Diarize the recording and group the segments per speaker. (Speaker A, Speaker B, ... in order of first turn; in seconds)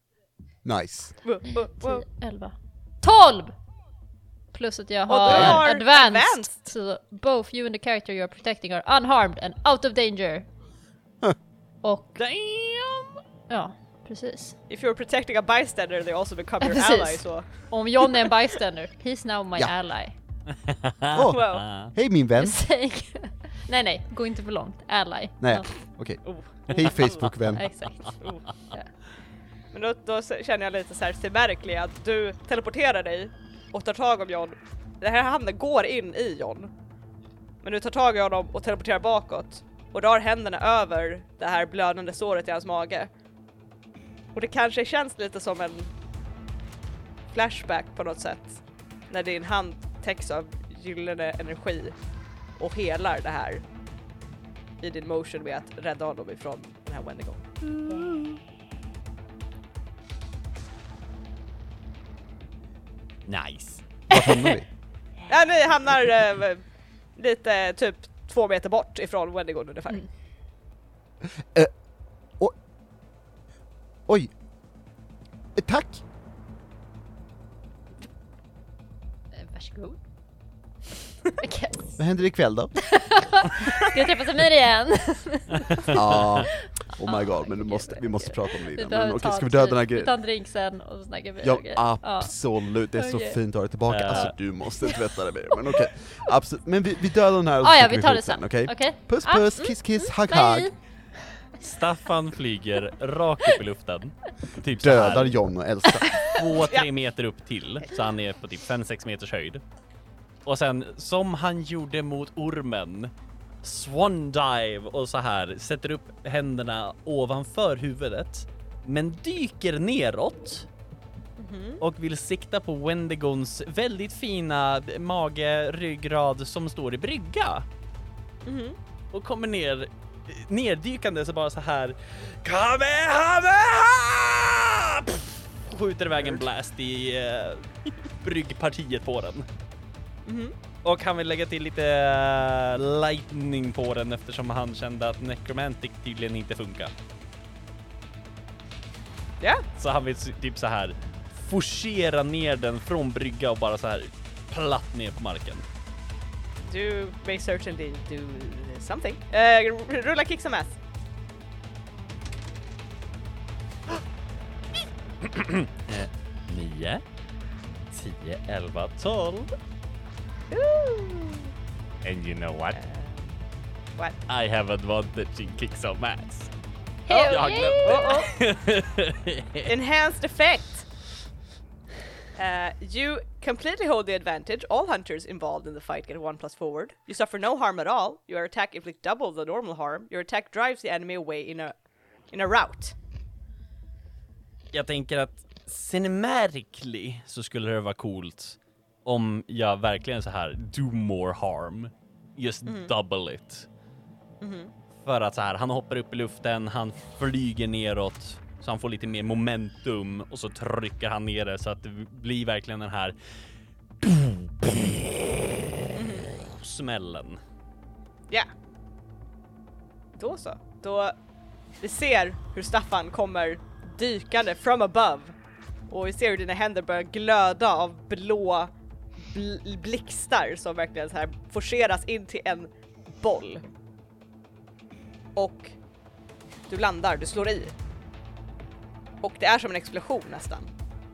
Speaker A: 0.6-1.2, 5.3-5.6, 21.1-22.6, 25.4-27.6, 64.1-64.7, 71.4-71.7, 75.5-76.0, 82.0-82.9, 85.9-90.1, 91.4-100.7, 104.8-106.2
Speaker B: 1.2-2.1, 5.1-6.6, 14.7-18.1, 21.3-21.6, 26.2-27.3, 29.7-36.7, 37.6-43.1, 44.3-45.9, 47.3-52.0, 52.6-53.6, 54.8-58.1, 65.3-70.1, 121.4-121.8, 128.4-128.8, 140.3-140.6, 149.4-149.7, 156.7-160.8, 170.5-171.5, 172.7-173.4, 177.1-178.3, 179.7-180.9, 182.3-192.9, 202.7-202.9, 204.4-204.7, 215.9-216.3, 220.2-221.1, 221.8-225.3, 225.9-228.7, 229.2-233.6, 235.4-235.8, 236.7-237.7, 239.2-240.7
Speaker C: 1.7-3.6, 4.5-10.5, 11.8-12.2, 13.5-14.6, 16.6-20.2, 22.4-25.8, 27.5-28.9, 79.3-80.0, 81.4-82.1, 82.8-93.4, 97.6-100.8, 177.1-178.3
Speaker D: 12.2-13.2, 20.5-21.9, 63.3-64.4, 93.9-94.4, 101.6-105.4, 106.2-109.6, 110.5-113.1, 113.6-120.7, 121.8-127.7, 129.1-139.5, 140.8-146.9, 149.8-155.7, 165.2-167.0, 167.9-169.6, 172.0-172.8, 174.3-176.5, 177.3-179.7, 194.7-203.7, 205.0-213.2, 214.0-215.3, 216.4-217.4